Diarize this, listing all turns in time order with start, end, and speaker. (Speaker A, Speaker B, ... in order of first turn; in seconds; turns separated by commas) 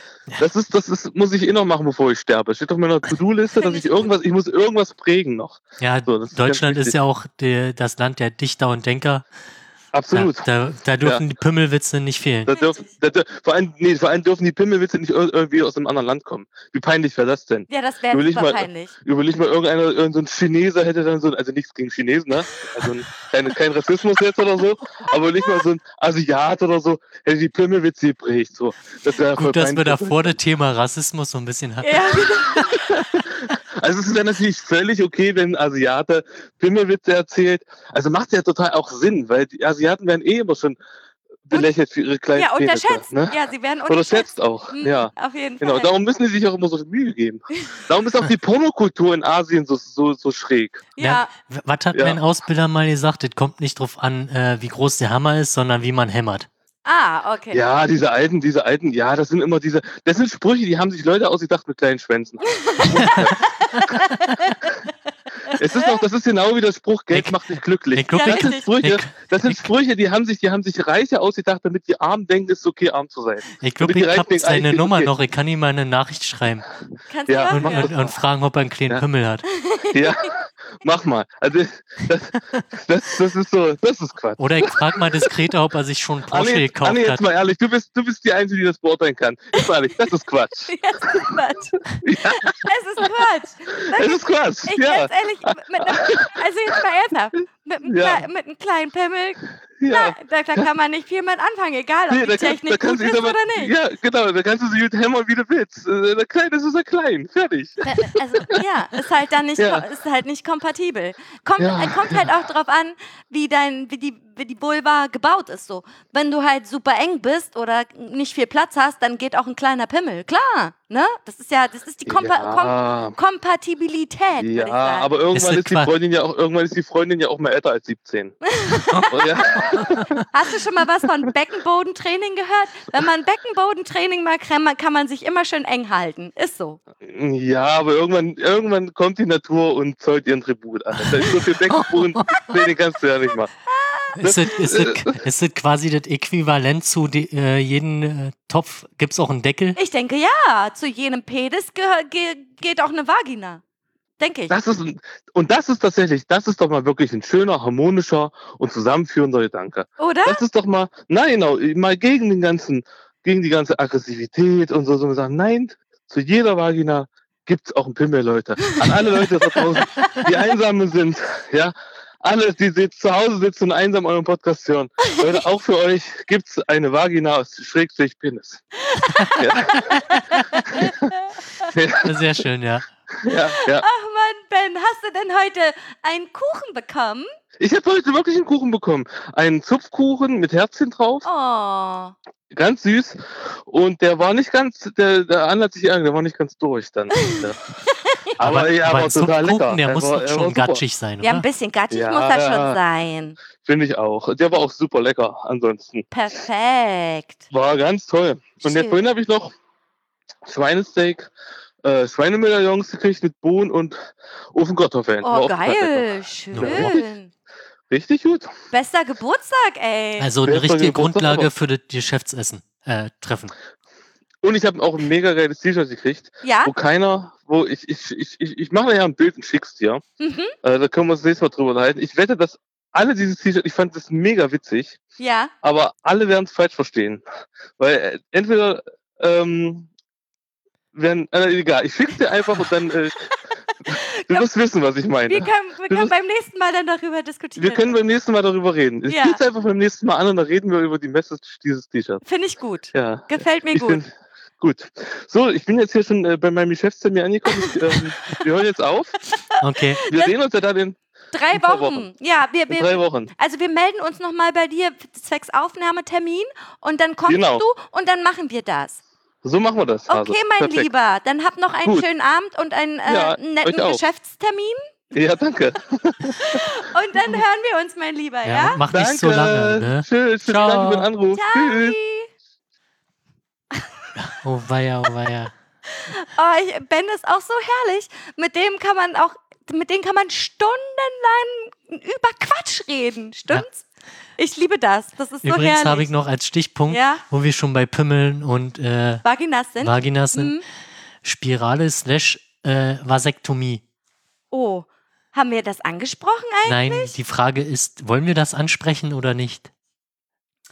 Speaker A: 0.4-7.0, Speaker B: 3.6-4.1, Speaker C: 5.8-9.2, Speaker A: 9.9-10.5, Speaker C: 10.1-12.5, Speaker A: 12.5-30.4, Speaker B: 12.5-12.9, Speaker B: 17.7-18.9, Speaker B: 22.6-22.9, Speaker C: 29.3-32.8, Speaker B: 31.8-33.2, Speaker A: 32.7-40.8, Speaker A: 41.5-50.9, Speaker B: 42.4-45.9, Speaker B: 51.0-51.3, Speaker C: 51.0-56.5, Speaker A: 51.9-52.2, Speaker B: 56.9-57.6, Speaker A: 57.5-63.4, Speaker B: 62.5-64.7, Speaker C: 62.9-63.9, Speaker B: 65.5-66.0, Speaker A: 65.5-75.1, Speaker C: 67.1-67.4, Speaker C: 67.9-69.7, Speaker B: 68.1-68.8, Speaker C: 73.6-76.7, Speaker B: 77.1-77.9, Speaker A: 77.3-78.2, Speaker C: 77.5-79.5, Speaker B: 79.5-80.3, Speaker A: 79.9-85.3, Speaker C: 84.4-87.2, Speaker A: 86.3-91.3, Speaker B: 90.7-99.4, Speaker A: 91.9-92.7, Speaker A: 93.9-96.4, Speaker A: 97.9-98.2, Speaker A: 99.8-100.7, Speaker B: 99.9-103.7, Speaker A: 102.1-108.6, Speaker B: 107.8-125.1, Speaker A: 109.6-109.8, Speaker A: 111.6-112.3, Speaker A: 122.1-123.2, Speaker A: 124.4-128.4, Speaker C: 125.3-125.9, Speaker B: 128.5-129.5, Speaker A: 129.0-130.2, Speaker C: 129.6-130.1, Speaker B: 130.3-136.8, Speaker A: 137.0-143.5, Speaker C: 141.0-142.4, Speaker B: 143.7-144.2, Speaker C: 144.2-149.8, Speaker A: 144.2-145.2, Speaker B: 149.8-153.6, Speaker B: 154.2-154.6, Speaker A: 154.5-178.6, Speaker B: 160.0-160.4, Speaker B: 168.7-170.3, Speaker B: 178.8-181.7, Speaker A: 179.4-180.1, Speaker A: 180.7-181.0, Speaker A: 181.7-182.2, Speaker C: 182.0-182.8, Speaker A: 183.2-183.8, Speaker B: 183.3-187.3, Speaker A: 187.6-191.3, Speaker B: 191.2-192.2, Speaker A: 192.5-197.6, Speaker B: 197.2-198.2, Speaker A: 198.4-200.8, Speaker C: 198.4-201.4, Speaker B: 201.2-203.4, Speaker A: 201.9-202.8, Speaker A: 203.6-206.1, Speaker B: 206.1-207.4, Speaker A: 207.5-209.5, Speaker B: 208.6-209.0, Speaker A: 210.5-211.3, Speaker A: 211.8-217.0, Speaker B: 215.2-217.3, Speaker C: 216.5-217.0, Speaker A: 217.9-218.5, Speaker B: 218.7-220.3, Speaker C: 220.2-223.5, Speaker A: 220.5-221.5, Speaker A: 224.4-230.0, Speaker B: 226.4-226.7, Speaker B: 230.2-230.5, Speaker A: 230.6-235.0, Speaker B: 235.2-235.5, Speaker A: 235.6-237.2, Speaker A: 237.8-239.9, Speaker A: 240.9-243.3, Speaker B: 243.9-244.5, Speaker A: 243.9-246.1, Speaker B: 245.3-248.0, Speaker A: 247.6-252.2, Speaker B: 249.1-249.4, Speaker B: 252.2-254.0, Speaker A: 252.9-254.1, Speaker A: 254.6-259.2, Speaker B: 257.5-258.4, Speaker B: 259.3-260.3, Speaker C: 259.6-260.0, Speaker A: 260.1-261.0, Speaker B: 261.3-269.0, Speaker A: 261.5-262.1, Speaker A: 262.7-263.3, Speaker A: 267.3-267.6, Speaker A: 269.4-270.9, Speaker B: 270.1-274.8, Speaker A: 273.1-274.0, Speaker A: 275.1-276.7, Speaker B: 276.4-278.8, Speaker C: 278.4-281.1, Speaker A: 278.9-282.0, Speaker B: 281.3-282.3, Speaker C: 284.2-285.5, Speaker B: 285.9-293.9, Speaker B: 294.4-296.1, Speaker C: 295.4-299.2, Speaker B: 296.9-297.2, Speaker B: 299.2-300.6, Speaker C: 299.8-300.5, Speaker C: 301.2-303.8, Speaker B: 304.5-307.1, Speaker C: 306.6-309.7